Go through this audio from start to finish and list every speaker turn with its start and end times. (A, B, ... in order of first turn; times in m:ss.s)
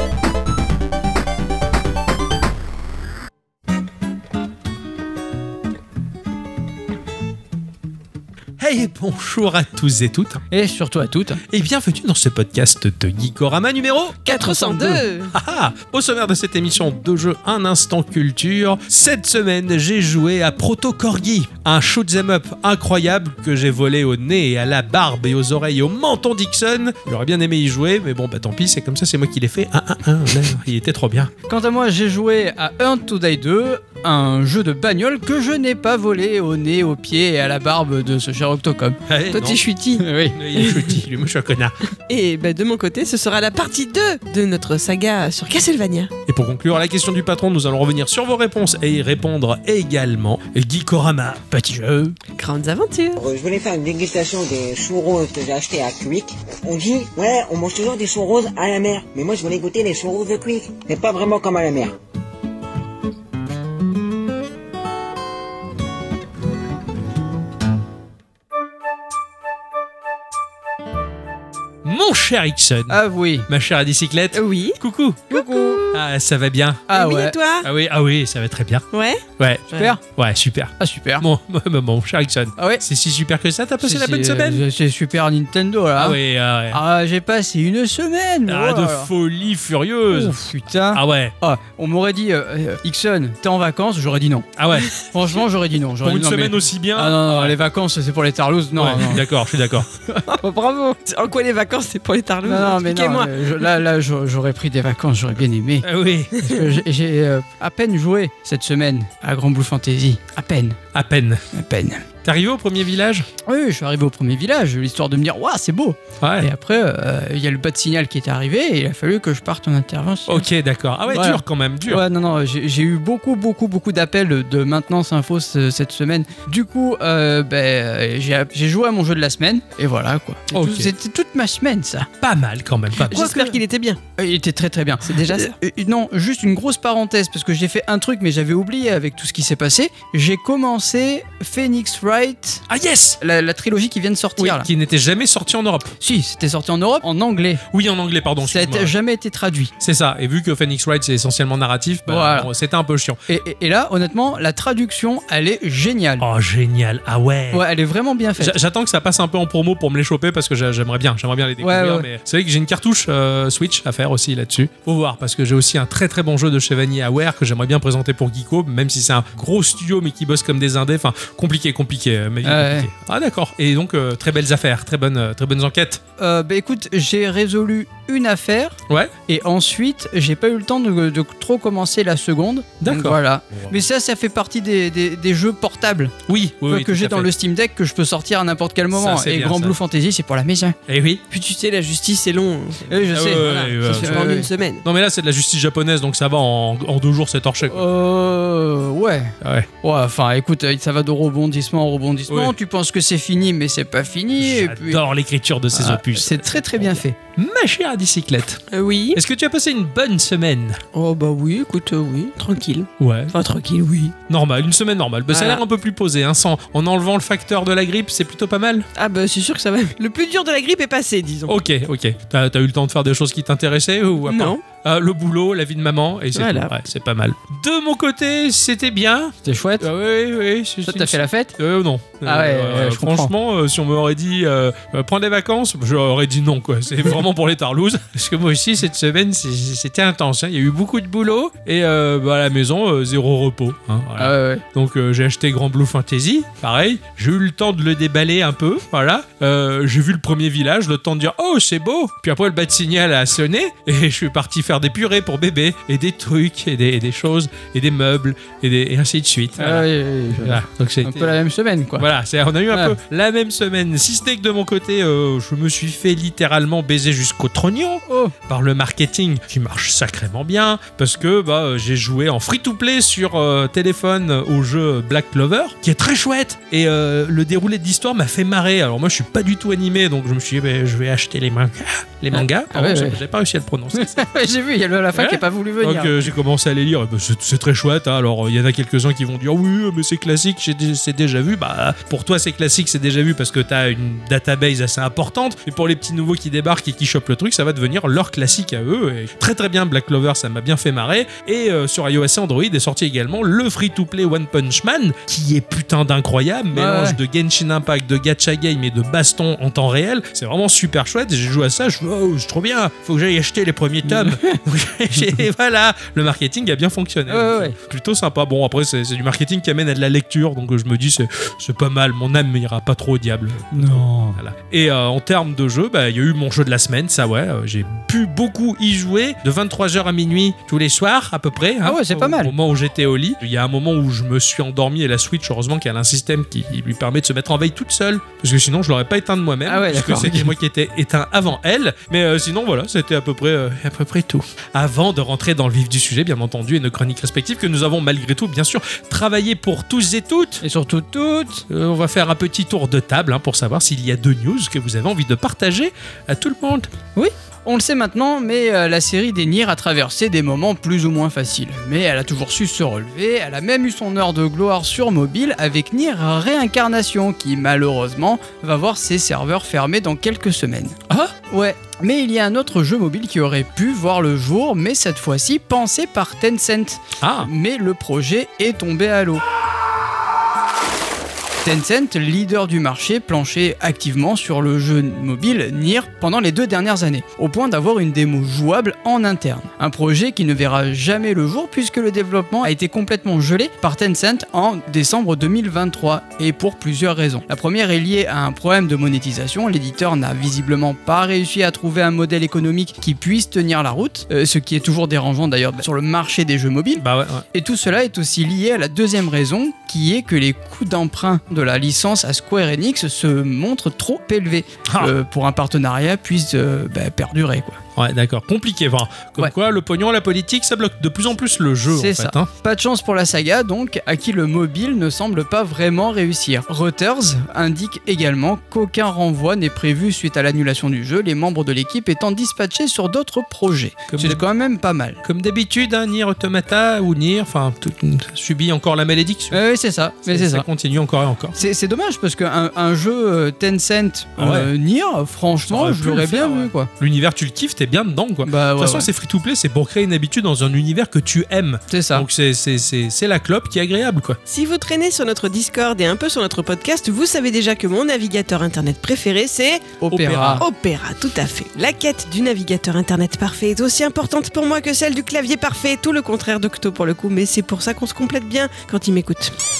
0:08.6-0:10.4 A
0:10.5-0:11.4 B
0:11.5-0:14.3 A
0:14.2-0:15.3 C
0:14.3-0:15.0 B
0:15.3-0:31.3 A
0:31.5-0:39.0 B
0:39.1-0:39.6 A
0:39.3-0:41.0 C
0:40.0-0:40.4 B
0:40.3-0:41.8 A
0:42.1-0:46.1 C
0:46.3-0:52.2 A
0:52.4-0:53.2 C
0:53.2-1:02.0 D
1:11.8-1:15.3 A
1:12.9-1:13.5 B
1:14.3-1:14.8 C
1:15.3-1:15.9 B
1:15.3-1:16.0 C
1:15.9-1:16.9 A
1:16.9-1:17.4 B
1:16.9-1:17.7 C
1:17.6-1:18.8 A
1:18.9-1:19.9 C
1:19.4-1:24.6 A
1:19.7-1:20.0 B
1:20.8-1:21.3 B
1:22.6-1:22.8 B
1:23.8-1:26.2 B
1:26.0-1:26.8 A
1:26.7-1:29.1 B
1:28.5-1:30.4 A
1:30.1-1:39.2 B
1:30.9-1:31.3 A
1:34.6-1:34.9 A
1:36.0-1:37.6 A
1:38.8-1:39.9 A
1:40.2-1:43.7 C
1:42.4-1:50.8 B
1:45.8-1:46.3 A
1:50.9-1:51.4 A
1:51.5-1:52.1 B
1:52.2-1:53.3 A
1:53.5-2:00.5 B
1:56.2-1:56.5 A
2:00.3-2:02.0 A
2:01.1-2:12.1 B
2:10.5-2:10.9 A
2:12.2-2:13.3 A
2:13.1-2:14.0 C
2:13.1-2:13.5 B
2:14.2-2:22.6 B
2:15.0-2:15.5 C
2:22.7-2:23.2 A
2:23.2-2:24.7 B
2:24.4-2:26.0 A
2:26.0-2:27.6 B
2:27.7-2:28.9 A
2:28.4-2:29.7 B
2:29.8-2:33.2 A
2:32.1-2:32.5 B
2:33.3-2:36.3 B
2:36.2-2:37.7 A
2:37.5-2:38.6 B
2:38.4-2:56.0 A
2:41.6-2:42.1 B
2:52.4-2:52.9 B
2:56.2-3:10.8 B
2:58.9-2:59.1 A
3:02.8-3:03.8 A
3:06.3-3:07.3 A
3:08.9-3:09.8 A
3:10.9-3:11.2 A
3:11.3-3:14.8 C
3:12.9-3:14.5 B
3:13.1-3:14.2 A
3:14.8-3:17.9 A
3:17.7-3:25.0 B
3:19.4-3:19.7 A
3:22.3-3:22.6 A
3:24.4-3:28.6 A
3:25.7-3:27.2 B
3:28.7-3:29.2 C
3:29.1-3:30.8 A
3:30.9-3:34.2 C
3:33.0-3:33.4 A
3:34.3-3:38.9 A
3:35.3-3:35.6 C
3:39.0-3:41.5 C
3:41.5-4:21.4 A
3:44.3-3:44.6 C
3:46.4-3:46.7 C
3:49.4-3:49.9 B
3:50.9-3:51.6 B
3:52.2-3:53.3 B
4:04.2-4:04.6 B
4:19.6-4:22.1 B
4:22.0-4:44.3 A
4:28.1-4:28.4 B
4:42.3-4:43.2 B
4:43.9-4:46.2 B
4:45.1-5:50.6 A
5:06.7-5:07.2 B
5:14.1-5:14.6 B
5:17.3-5:17.8 B
5:23.7-5:24.4 B
5:31.8-5:32.5 B
5:39.7-5:40.6 B
5:50.6-5:51.7 B
5:51.7-5:56.9 A
5:57.2-6:11.0 B
6:11.5-6:19.4 B
6:17.2-6:17.5 A
6:21.6-6:57.8 B
6:47.0-6:47.4 A
6:54.9-6:55.1 A
6:58.0-7:02.5 A
7:01.9-7:15.2 B
7:14.1-7:14.4 A
7:15.2-7:19.6 A
7:19.5-7:20.6 B
7:20.2-7:21.6 A
7:21.6-7:26.9 B
7:24.4-7:24.7 A
7:25.7-7:34.4 A
7:28.4-7:29.1 B
7:31.9-7:32.3 B
7:34.5-7:40.0 C
7:40.0-7:40.7 B
7:40.1-7:40.7 A
7:40.6-7:49.5 C